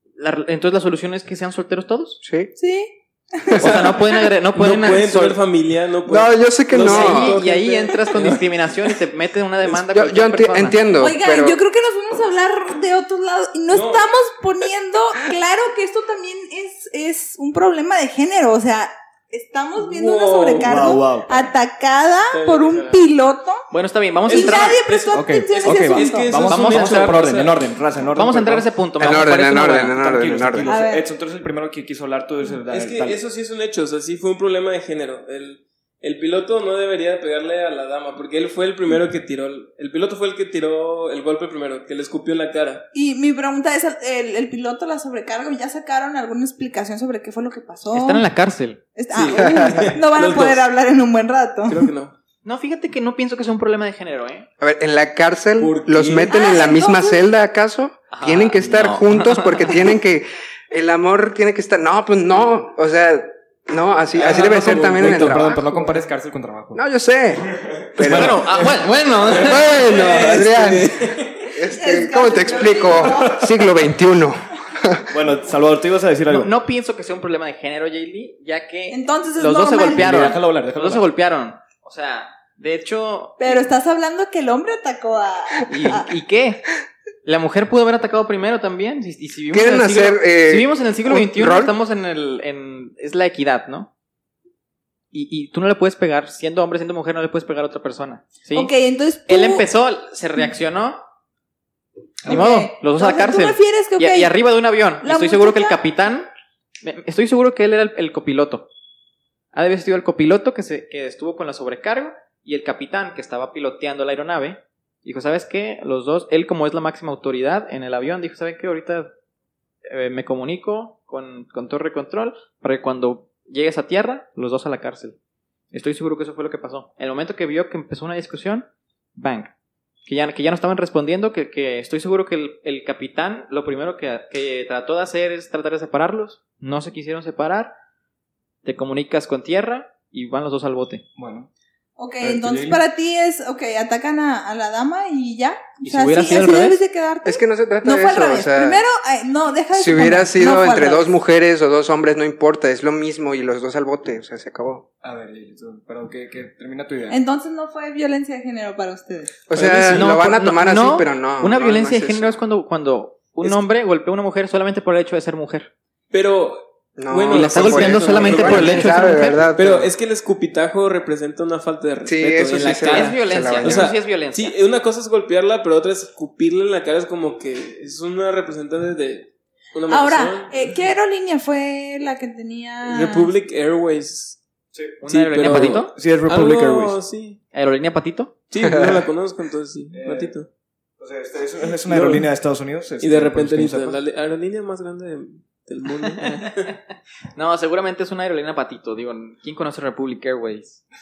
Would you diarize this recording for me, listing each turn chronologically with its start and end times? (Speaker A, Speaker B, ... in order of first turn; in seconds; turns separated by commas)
Speaker A: 0.2-2.2, Speaker B: 2.2-2.5, Speaker C: 2.6-4.3, Speaker B: 3.6-3.9, Speaker A: 3.6-5.4, Speaker D: 4.5-8.4, Speaker B: 6.1-7.4, Speaker A: 6.8-10.8, Speaker B: 9.7-11.6, Speaker C: 11.0-23.6, Speaker D: 13.7-14.1, Speaker D: 19.8-20.8, Speaker E: 20.6-21.5, Speaker D: 22.3-23.0, Speaker A: 23.7-24.8, Speaker D: 24.3-27.6, Speaker C: 24.3-26.4, Speaker E: 25.1-28.7, Speaker A: 26.5-27.2, Speaker A: 28.1-30.0, Speaker B: 29.0-30.7, Speaker E: 29.8-33.2, Speaker C: 30.6-31.1, Speaker D: 32.7-42.9, Speaker C: 42.9-48.3, Speaker A: 47.9-48.8, Speaker C: 49.0-51.8, Speaker D: 49.1-50.7, Speaker B: 49.3-49.9, Speaker D: 51.7-52.1, Speaker A: 52.4-54.5, Speaker B: 54.6-65.6, Speaker D: 55.6-56.4, Speaker C: 56.3-57.3, Speaker A: 58.1-59.9, Speaker E: 64.1-66.8, Speaker D: 65.1-65.8, Speaker B: 66.8-68.4, Speaker E: 67.4-68.8, Speaker A: 68.0-69.8, Speaker B: 69.2-71.0, Speaker D: 69.3-71.5, Speaker B: 71.5-75.0, Speaker C: 71.7-73.4, Speaker E: 75.1-76.5, Speaker A: 76.3-83.6, Speaker C: 78.9-80.3, Speaker E: 79.9-81.1, Speaker C: 83.4-86.1, Speaker A: 85.7-86.7, Speaker A: 87.2-93.9, Speaker B: 89.5-91.8, Speaker A: 95.1-98.7, Speaker C: 98.5-99.7, Speaker A: 99.3-101.0, Speaker C: 102.2-104.3, Speaker A: 102.3-106.3, Speaker C: 105.0-105.8, Speaker A: 106.8-108.7, Speaker A: 109.5-119.1, Speaker A: 119.9-125.2, Speaker A: 125.7-129.5, Speaker A: 130.1-137.7, Speaker A: 138.7-141.0, Speaker E: 141.2-141.5, Speaker C: 142.0-151.1, Speaker E: 142.2-142.8, Speaker A: 145.8-146.8, Speaker B: 147.2-148.8, Speaker B: 149.7-154.8, Speaker E: 155.0-157.2, Speaker C: 157.1-159.4, Speaker B: 159.5-162.4, Speaker D: 159.5-160.1, Speaker A: 159.9-165.7, Speaker D: 166.1-180.7, Speaker B: 167.0-169.9, Speaker A: 167.3-169.5, Speaker B: 172.1-173.9, Speaker A: 172.6-174.6, Speaker C: 179.9-183.3, Speaker D: 182.8-184.4, Speaker E: 184.7-187.0, Speaker A: 185.0-185.9, Speaker D: 185.1-187.4, Speaker A: 187.5-188.3, Speaker D: 188.5-190.5, Speaker E: 189.9-190.4, Speaker E: 191.0-194.0, Speaker D: 191.9-192.3, Speaker D: 193.0-196.7, Speaker A: 197.4-200.8